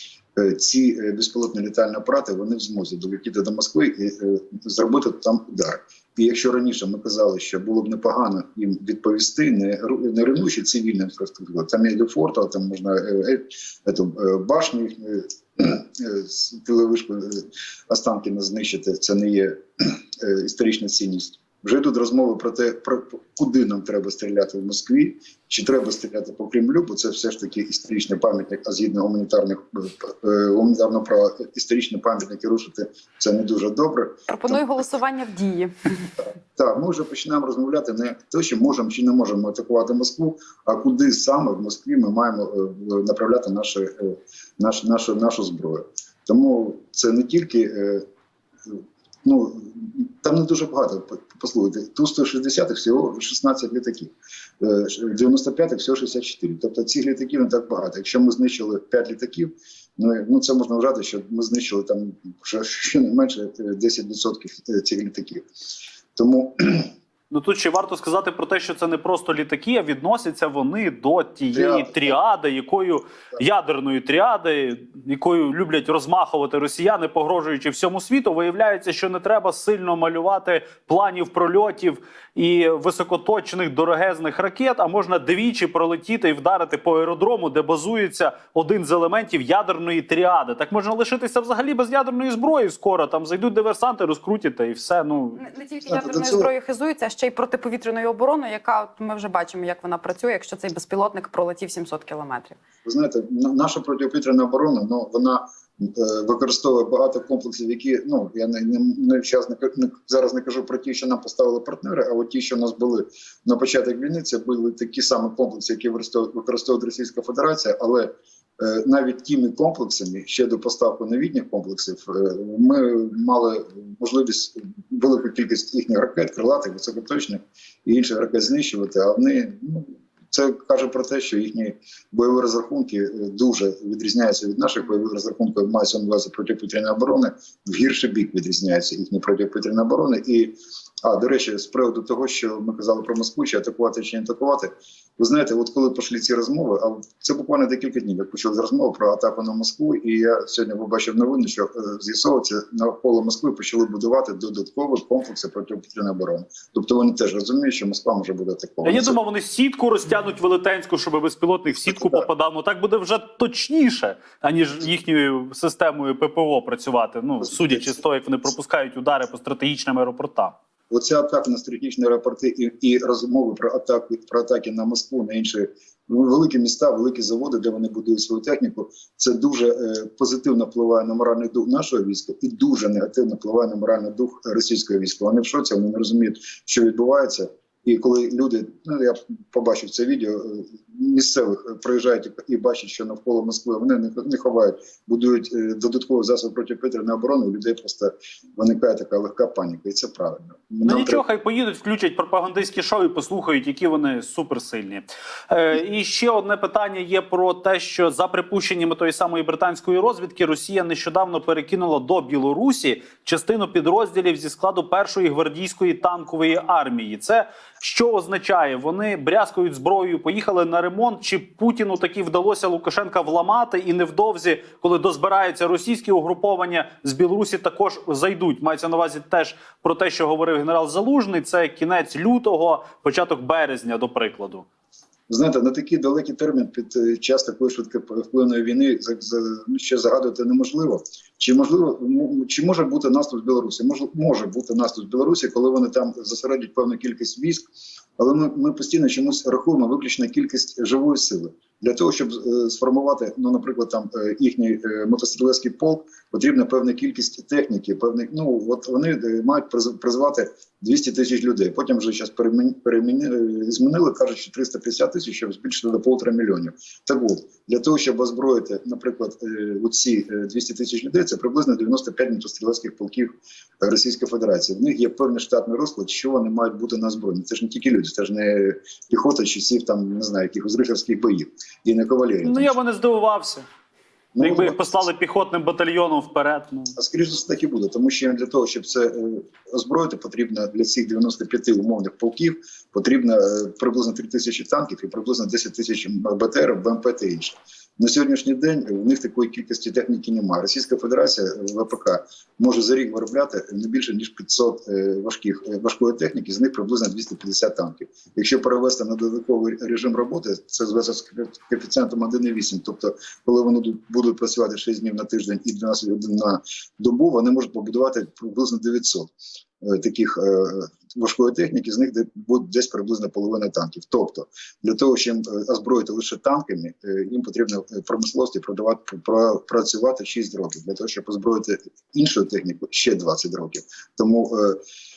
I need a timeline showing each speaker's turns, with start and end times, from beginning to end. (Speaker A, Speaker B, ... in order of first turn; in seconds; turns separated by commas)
Speaker A: 0.3-34.7, Speaker B: 34.3-36.0, Speaker A: 36.2-48.0, Speaker A: 48.7-65.4, Speaker A: 66.2-66.9, Speaker C: 67.3-95.4, Speaker A: 71.5-72.2, Speaker B: 95.3-102.6, Speaker A: 95.9-96.5, Speaker A: 102.8-159.2, Speaker C: 158.8-170.5, Speaker A: 161.8-162.2, Speaker A: 167.4-167.8, Speaker A: 170.9-201.2, Speaker C: 200.8-234.6, Speaker A: 235.3-247.7, Speaker A: 248.2-282.8, Speaker C: 282.4-283.6, Speaker A: 284.3-284.9, Speaker C: 284.4-286.9, Speaker A: 286.9-334.8